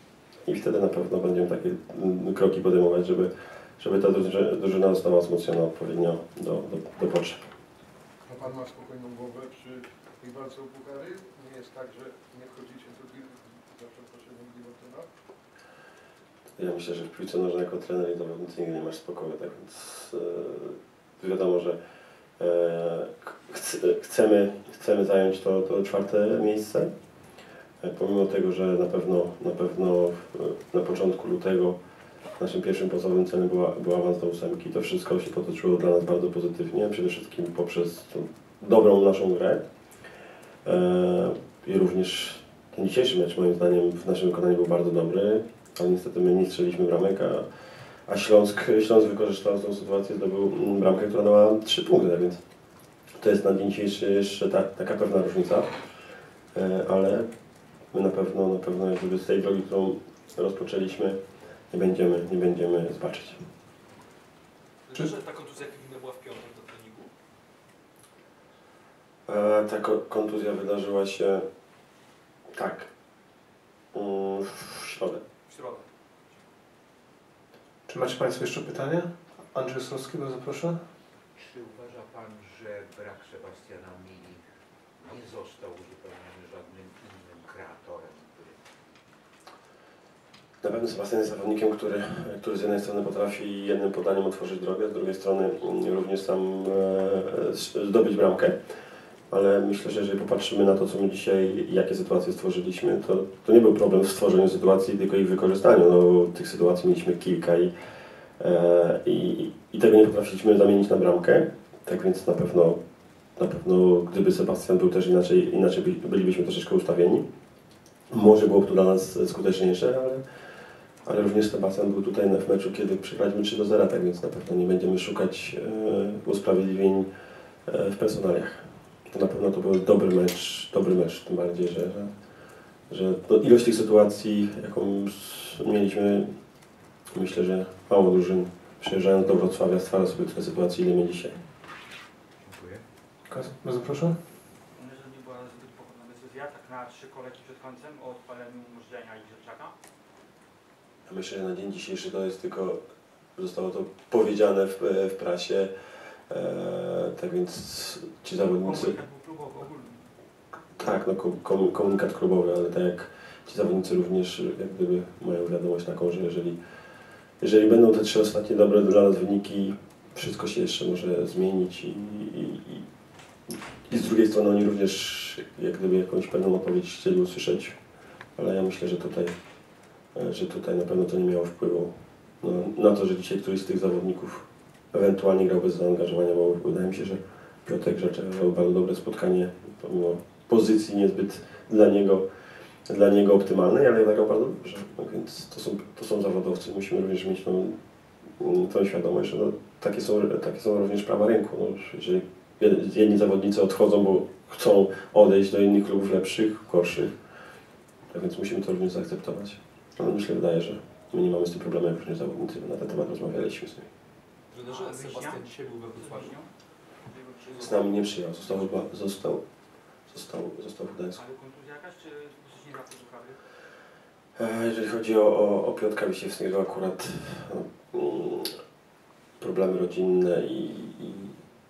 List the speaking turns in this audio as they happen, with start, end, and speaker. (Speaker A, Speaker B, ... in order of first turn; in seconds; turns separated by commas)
Speaker A: 0.4-7.4, Speaker B: 8.2-15.1, Speaker A: 16.6-21.8, Speaker A: 22.4-26.9, Speaker A: 27.8-31.8, Speaker A: 32.4-39.6, Speaker A: 40.6-47.5, Speaker A: 48.1-52.4, Speaker A: 53.2-55.7, Speaker A: 56.5-57.3, Speaker A: 57.9-61.2, Speaker A: 61.7-63.4, Speaker C: 64.9-67.1, Speaker A: 69.3-71.5, Speaker A: 72.5-72.9, Speaker A: 73.9-75.2, Speaker C: 75.5-76.5, Speaker D: 77.9-80.8, Speaker E: 81.4-84.4, Speaker E: 85.0-88.6, Speaker A: 90.6-98.5, Speaker A: 99.3-107.7, Speaker A: 108.4-112.8, Speaker A: 113.4-117.3, Speaker A: 118.1-120.2, Speaker A: 121.0-127.1, Speaker A: 127.7-132.1, Speaker A: 132.9-136.3, Speaker A: 137.1-141.4, Speaker E: 142.4-142.8, Speaker D: 143.3-144.2, Speaker F: 144.8-149.8, Speaker A: 151.1-152.8, Speaker A: 153.4-155.7, Speaker A: 156.3-159.0, Speaker F: 158.6-160.0, Speaker A: 160.8-166.6, Speaker A: 167.4-172.8, Speaker A: 173.9-177.8, Speaker A: 178.4-179.3, Speaker A: 180.2-192.2, Speaker A: 192.9-197.8, Speaker A: 198.4-207.1, Speaker A: 208.1-213.9, Speaker C: 214.5-216.3, Speaker F: 214.7-216.5, Speaker F: 217.1-217.4, Speaker C: 217.4-218.8, Speaker A: 217.6-219.4, Speaker A: 220.1-221.2, Speaker F: 221.2-223.4, Speaker A: 224.4-228.6, Speaker A: 229.4-231.4